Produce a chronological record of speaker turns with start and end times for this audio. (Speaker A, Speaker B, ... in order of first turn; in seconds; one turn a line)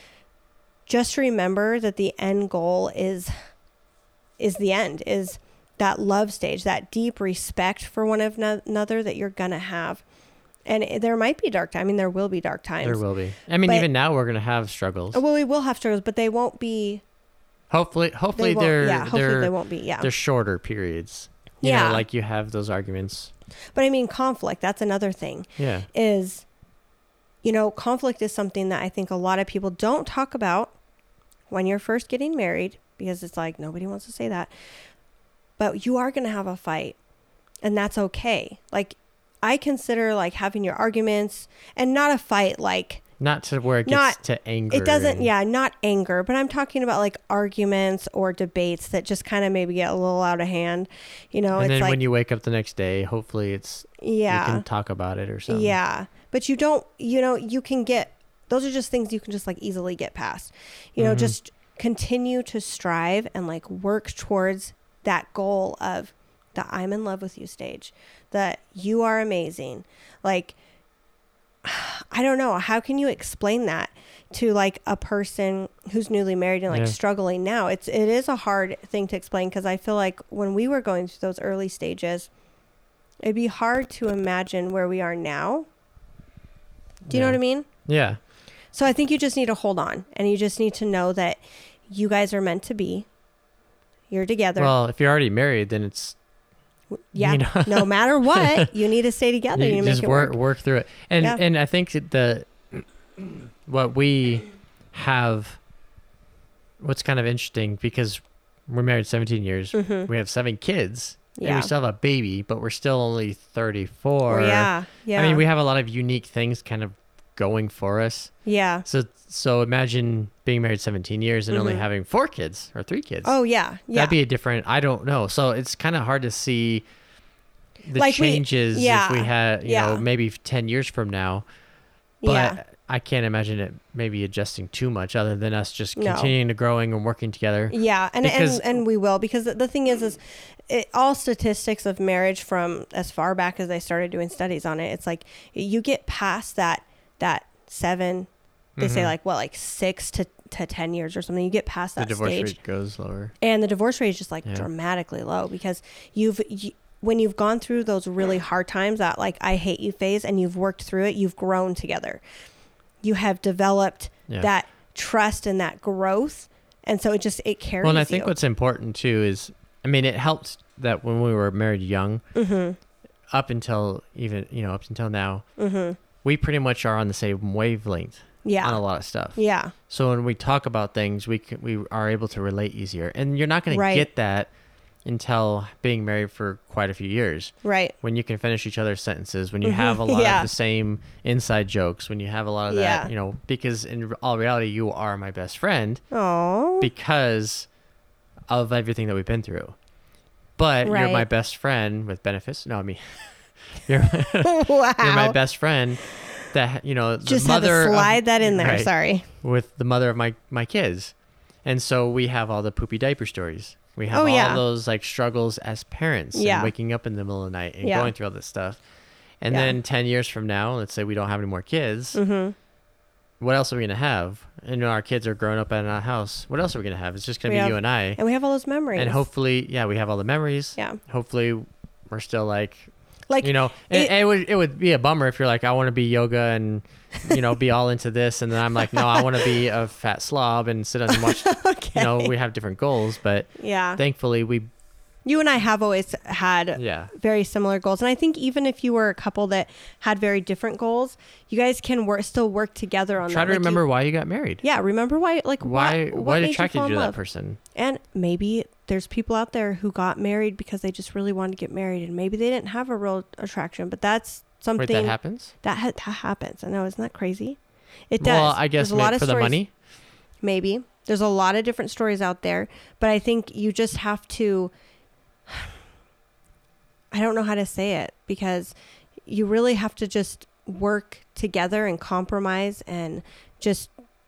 Speaker A: 0.9-3.3
Speaker A: 4.4-10.0
Speaker A: 10.7-13.0
Speaker B: 12.8-15.2
Speaker A: 15.1-17.0
Speaker B: 17.7-23.3
Speaker A: 18.3-20.1
Speaker A: 21.6-22.0
Speaker A: 23.7-26.4
Speaker B: 25.6-25.9
Speaker A: 27.4-30.7
Speaker A: 31.5-34.5
Speaker A: 35.6-37.0
Speaker A: 37.6-43.0
Speaker B: 43.2-45.3
Speaker A: 43.9-44.2
Speaker A: 44.7-52.0
Speaker B: 51.5-55.8
Speaker A: 54.0-54.6
Speaker A: 55.5-70.5
Speaker B: 61.0-61.4
Speaker A: 71.6-82.3
Speaker B: 76.7-77.0
Speaker A: 83.2-85.7
Speaker B: 87.1-88.2
Speaker A: 87.1-87.7
Speaker A: 88.7-93.1
Speaker A: 94.1-94.7
Speaker B: 94.6-96.2
Speaker A: 97.0-100.4
Speaker B: 97.2-98.7
Speaker B: 99.5-105.6
Speaker B: 106.8-118.3
Speaker A: 109.7-110.1
Speaker A: 111.4-111.7
Speaker A: 114.3-115.4
Speaker A: 118.5-118.8
Speaker B: 118.8-123.3
Speaker A: 121.5-121.8
Speaker A: 123.2-124.1
Speaker B: 123.9-126.8
Speaker B: 127.8-131.4
Speaker A: 127.9-130.0
Speaker A: 132.2-132.6
Speaker B: 132.2-138.6
Speaker A: 135.9-136.3
Speaker A: 137.7-148.3
Speaker B: 148.8-149.1
Speaker A: 148.8-152.6
Speaker B: 152.0-153.3
Speaker A: 153.4-162.2
Speaker A: 163.0-168.3
Speaker B: 167.8-172.2
Speaker A: 172.3-172.8
Speaker B: 173.3-175.4
Speaker A: 175.6-176.0
Speaker B: 176.2-184.5
Speaker A: 178.4-178.8
Speaker A: 179.3-179.7
Speaker A: 183.7-184.1
Speaker B: 185.0-196.0
Speaker A: 187.6-187.9
Speaker A: 189.6-190.5
Speaker A: 192.7-193.1
Speaker A: 196.1-196.9
Speaker B: 196.8-197.7
Speaker B: 198.5-199.8
Speaker B: 200.6-211.1
Speaker A: 200.8-201.2
Speaker A: 204.4-205.4
Speaker A: 207.2-209.3
Speaker B: 211.6-218.8
Speaker A: 214.1-214.6
Speaker A: 216.3-216.7
Speaker A: 217.8-218.1
Speaker B: 219.4-222.2
Speaker A: 219.5-219.8
Speaker A: 222.1-222.5
Speaker B: 223.4-228.2
Speaker A: 227.5-229.2
Speaker B: 228.9-244.7
Speaker A: 233.3-234.1
Speaker A: 238.8-239.5
Speaker A: 241.1-242.3
Speaker A: 243.6-244.0
Speaker A: 245.2-253.8
Speaker B: 246.8-247.1
Speaker B: 253.2-254.6
Speaker A: 254.6-257.1
Speaker B: 255.6-257.6
Speaker A: 257.7-267.6
Speaker B: 264.8-265.5
Speaker A: 268.1-269.6
Speaker B: 268.2-269.7
Speaker A: 270.4-274.7
Speaker A: 277.1-278.7
Speaker A: 279.3-283.9